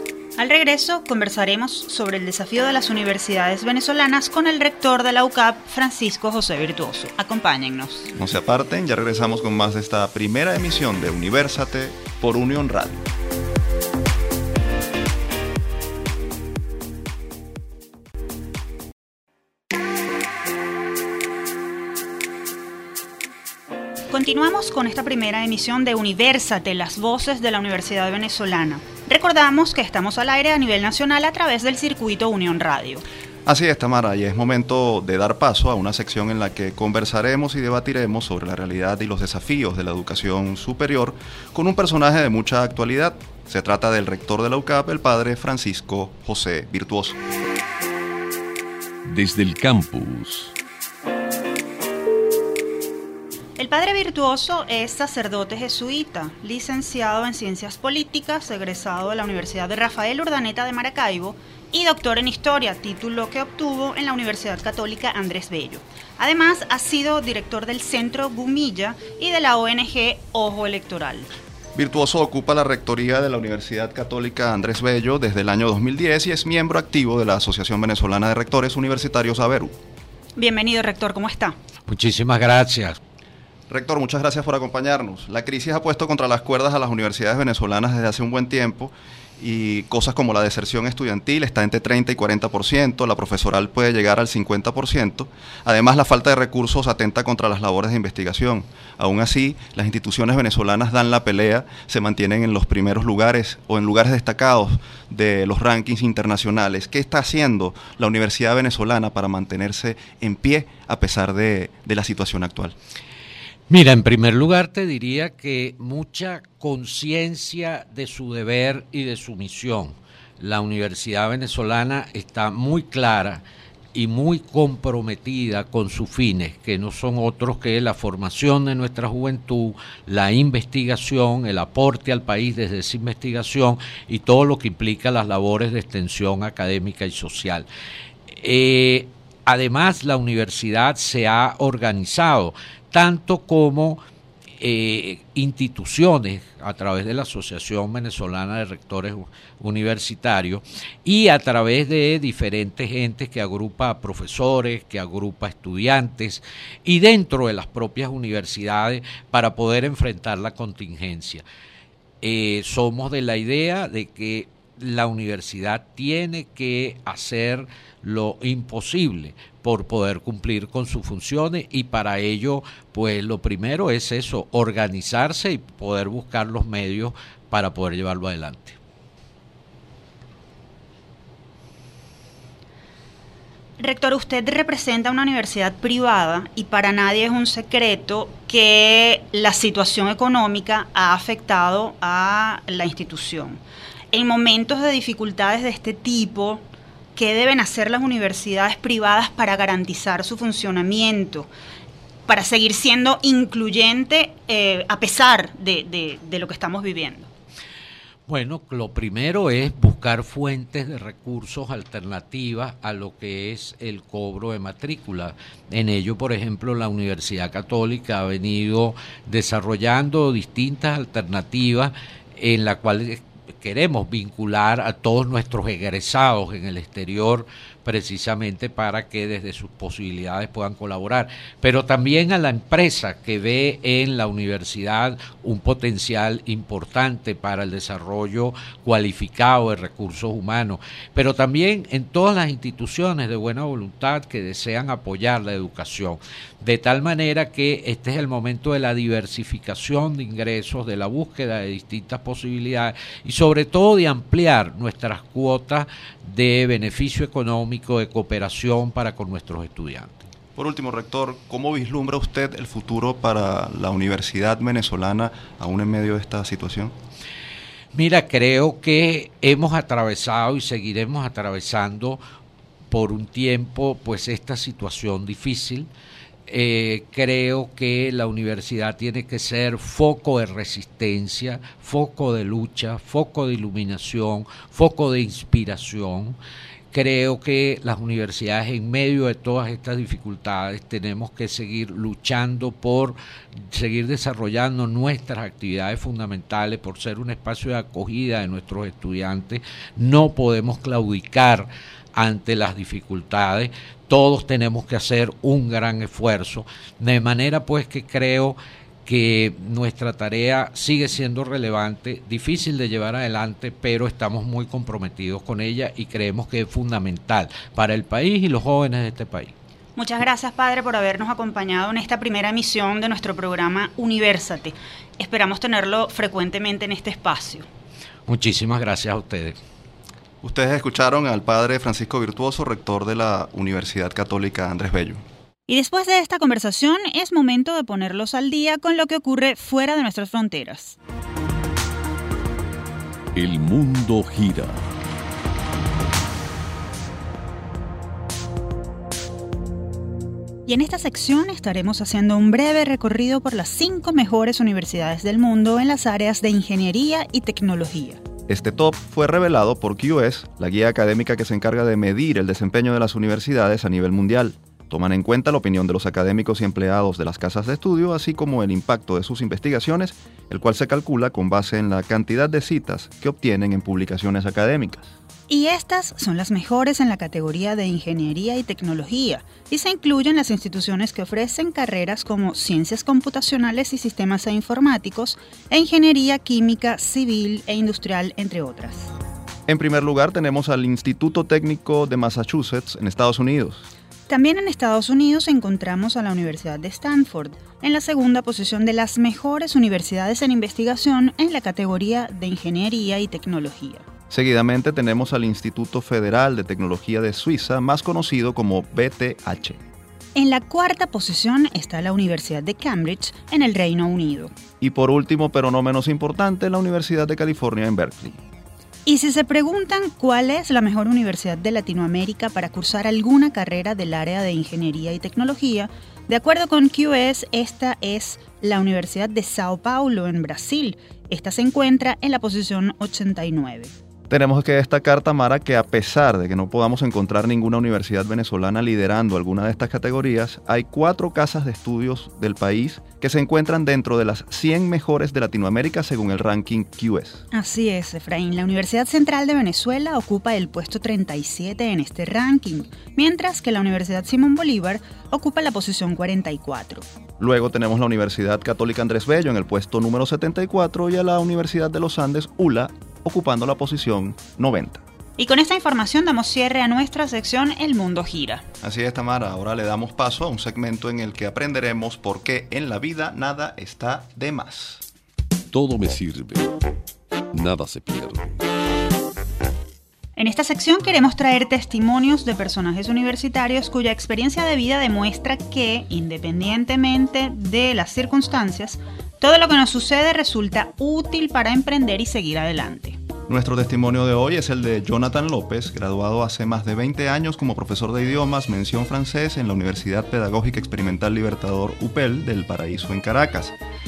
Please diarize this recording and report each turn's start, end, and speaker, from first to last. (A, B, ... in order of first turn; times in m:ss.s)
0:00.4-0:08.1 A
0:08.1-0:13.0 B
0:24.1-0:33.0 A
0:33.4-0:47.2 B
0:49.0-0:50.5 C
0:53.6-1:11.3 A
1:11.8-1:19.8 B
1:20.4-1:21.6 A
1:21.9-1:23.0 D
1:23.7-1:52.8 B
1:53.7-2:03.4 D
2:03.9-2:17.6 D
2:18.3-2:24.0 D
2:24.6-2:41.4 D
2:42.2-2:58.8 D
3:03.8-3:13.6 A
3:14.1-3:21.5 A
3:22.3-3:27.3 A
3:28.3-4:20.2 D
4:20.6-4:27.0 B
4:27.9-4:32.2 D
4:32.9-4:35.9 D
4:36.5-4:46.4 D
4:46.9-5:19.5 D
5:20.0-5:27.7 A
5:28.3-5:29.6 D
5:30.4-5:35.2 B
5:35.7-5:41.0 A
5:43.3-5:44.8 C
5:50.7-5:58.2 A
5:58.5-6:15.1 B
6:15.5-6:29.1 A
6:29.7-6:33.9 B
6:34.3-6:44.0 A
6:44.3-6:49.8 B
6:50.3-6:54.5 A
6:54.8-6:58.4 B
6:59.0-7:13.9 A
7:14.3-7:27.4 B
7:27.5-7:37.0 A
7:37.4-7:45.0 B
7:45.4-7:48.6 A
7:48.8-7:55.0 B
7:55.7-7:56.8 C
7:57.5-7:58.6 C
8:00.4-8:13.2 A
8:13.5-8:23.8 B